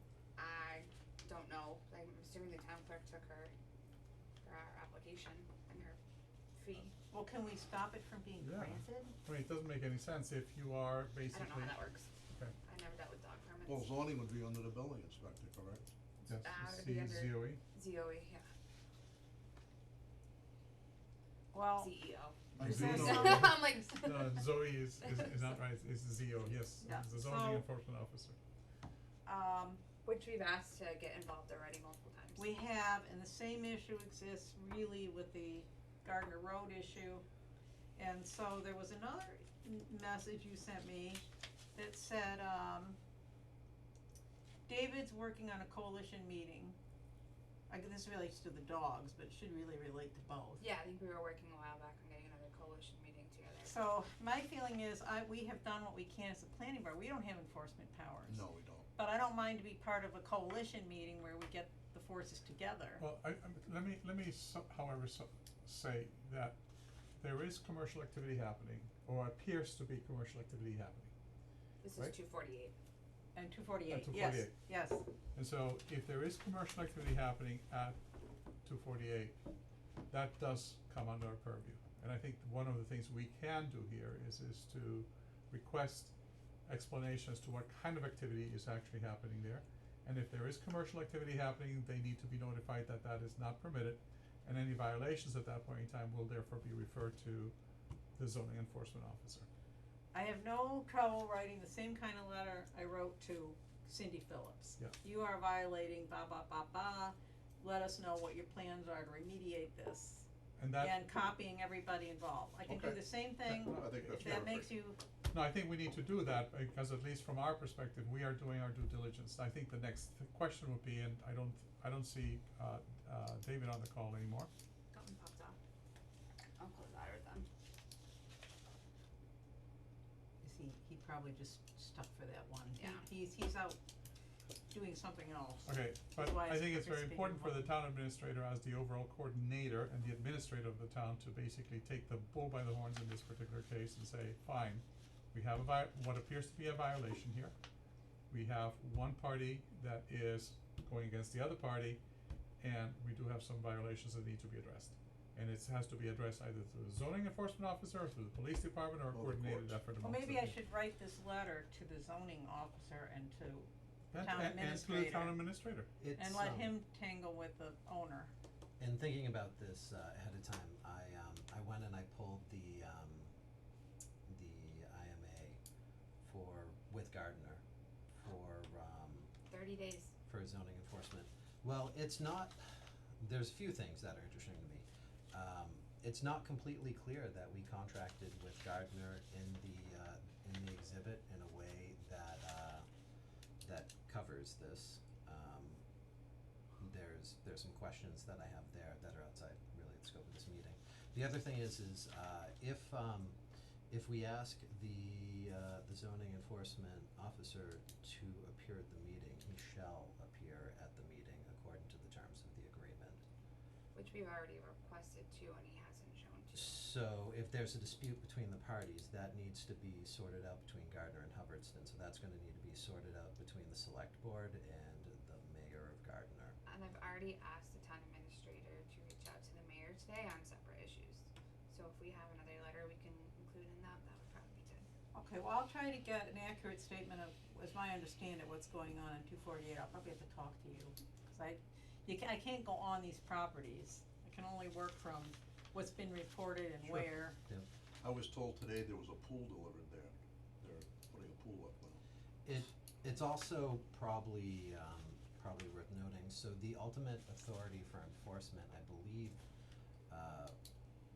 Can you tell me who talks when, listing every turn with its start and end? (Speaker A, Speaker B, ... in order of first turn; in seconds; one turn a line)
Speaker A: 0.3-3.5
Speaker A: 4.4-6.0
Speaker A: 6.5-6.9
Speaker B: 7.1-9.2
Speaker C: 8.4-12.5
Speaker A: 11.3-12.1
Speaker A: 12.6-13.9
Speaker D: 13.7-15.9
Speaker A: 16.2-18.4
Speaker C: 16.3-17.6
Speaker B: 21.5-22.0
Speaker A: 21.7-25.5
Speaker D: 22.6-23.5
Speaker C: 22.6-28.4
Speaker B: 22.6-23.4
Speaker B: 26.8-27.6
Speaker B: 29.2-29.8
Speaker A: 30.0-32.5
Speaker B: 32.4-37.2
Speaker B: 38.0-41.2
Speaker B: 41.7-43.0
Speaker B: 44.7-46.8
Speaker B: 47.7-50.6
Speaker A: 50.6-53.7
Speaker B: 53.6-58.4
Speaker D: 58.3-58.9
Speaker B: 58.9-63.0
Speaker C: 63.0-66.6
Speaker C: 67.2-71.1
Speaker A: 71.8-72.7
Speaker B: 73.3-75.1
Speaker C: 73.9-74.7
Speaker C: 75.3-78.0
Speaker C: 78.6-79.3
Speaker C: 80.1-97.5
Speaker C: 98.2-99.5
Speaker B: 100.1-115.0
Speaker C: 110.6-111.2
Speaker D: 112.6-114.7
Speaker C: 113.5-114.6
Speaker C: 115.3-124.5
Speaker A: 124.9-125.5
Speaker A: 126.6-127.5
Speaker B: 130.4-133.8
Speaker A: 132.8-133.0
Speaker B: 134.7-137.8
Speaker C: 135.7-147.5
Speaker C: 148.3-152.0
Speaker C: 152.6-160.6
Speaker D: 159.1-159.8
Speaker B: 160.0-165.4
Speaker C: 164.1-165.9
Speaker E: 166.0-166.8
Speaker B: 166.1-168.3
Speaker E: 168.8-173.3
Speaker E: 174.3-175.6
Speaker E: 176.2-177.6
Speaker E: 178.2-179.3
Speaker A: 179.5-180.1
Speaker E: 180.3-182.6
Speaker E: 183.2-192.9
Speaker E: 193.6-195.8
Speaker E: 196.8-203.4
Speaker E: 203.9-213.2
Speaker A: 213.9-216.9
Speaker E: 216.5-226.6
Speaker A: 226.7-234.8
Speaker B: 235.1-247.4
Speaker E: 246.8-247.7
Speaker D: 248.0-252.0
Speaker E: 252.4-259.4
Speaker E: 260.1-260.5